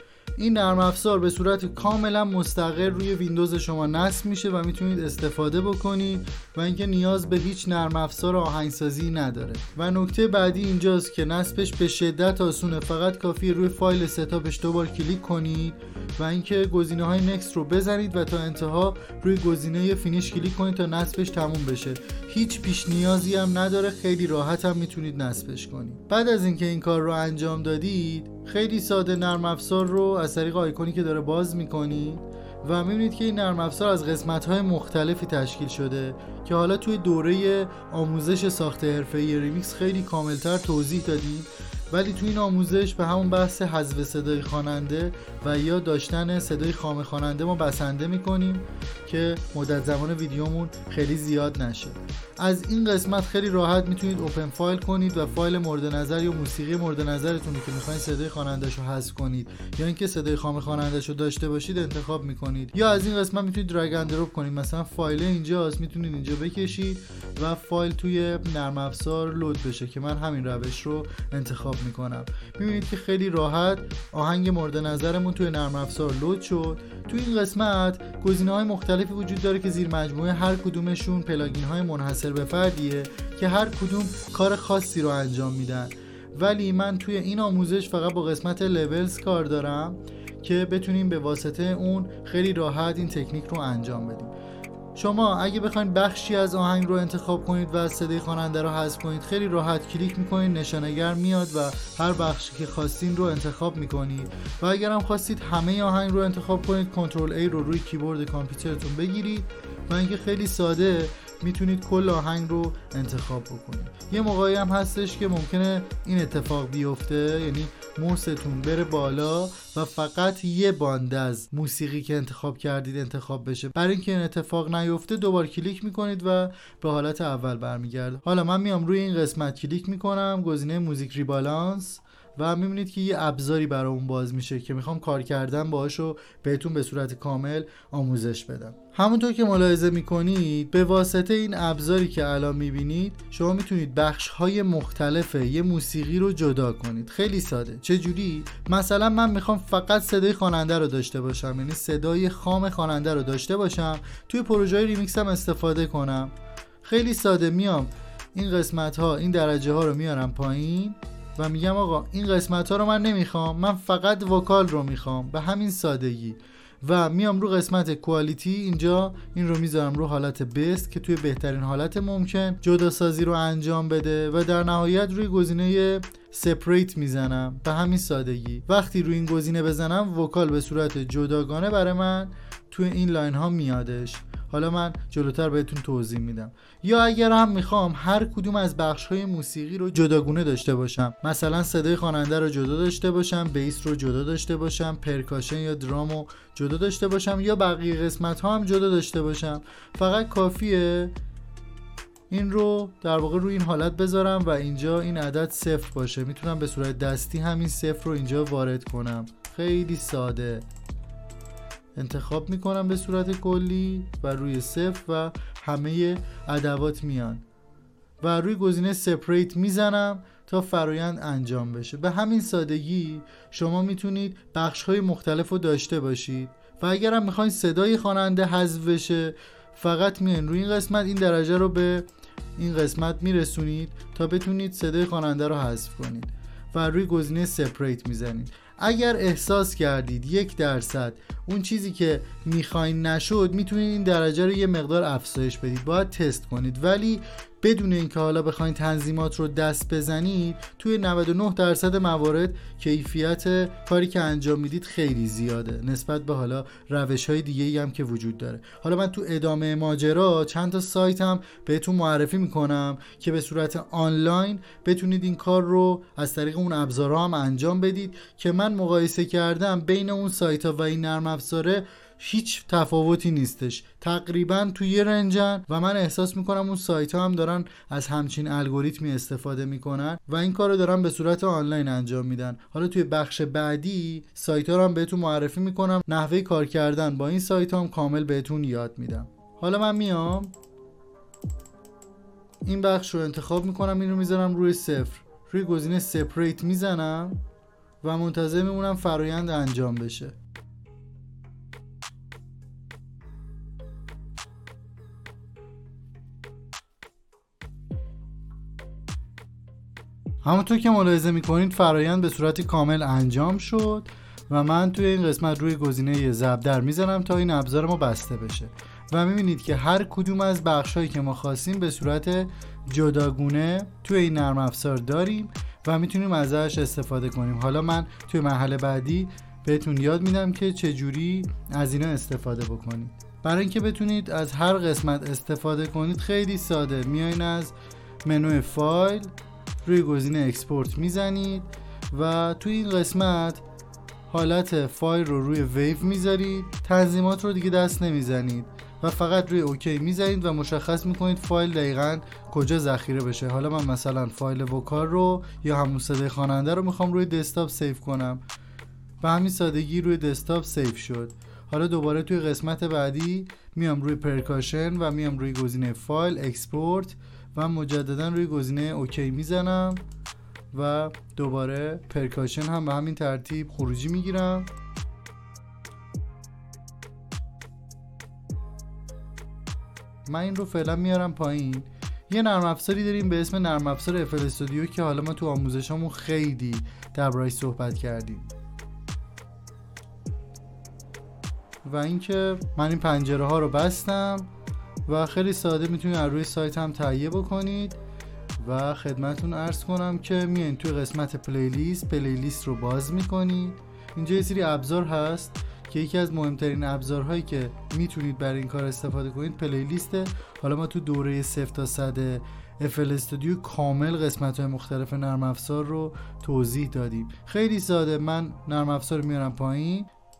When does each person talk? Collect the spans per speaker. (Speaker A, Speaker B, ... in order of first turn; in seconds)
Speaker A: 0.4-94.3, 94.9-201.1, 202.3-210.7, 211.9-217.4, 218.2-290.5, 292.6-297.4, 298.0-300.4, 310.4-339.3, 339.8-343.6, 344.3-358.4, 359.2-370.0, 370.7-374.7, 380.2-388.5, 391.8-394.5, 395.1-398.0, 398.6-420.1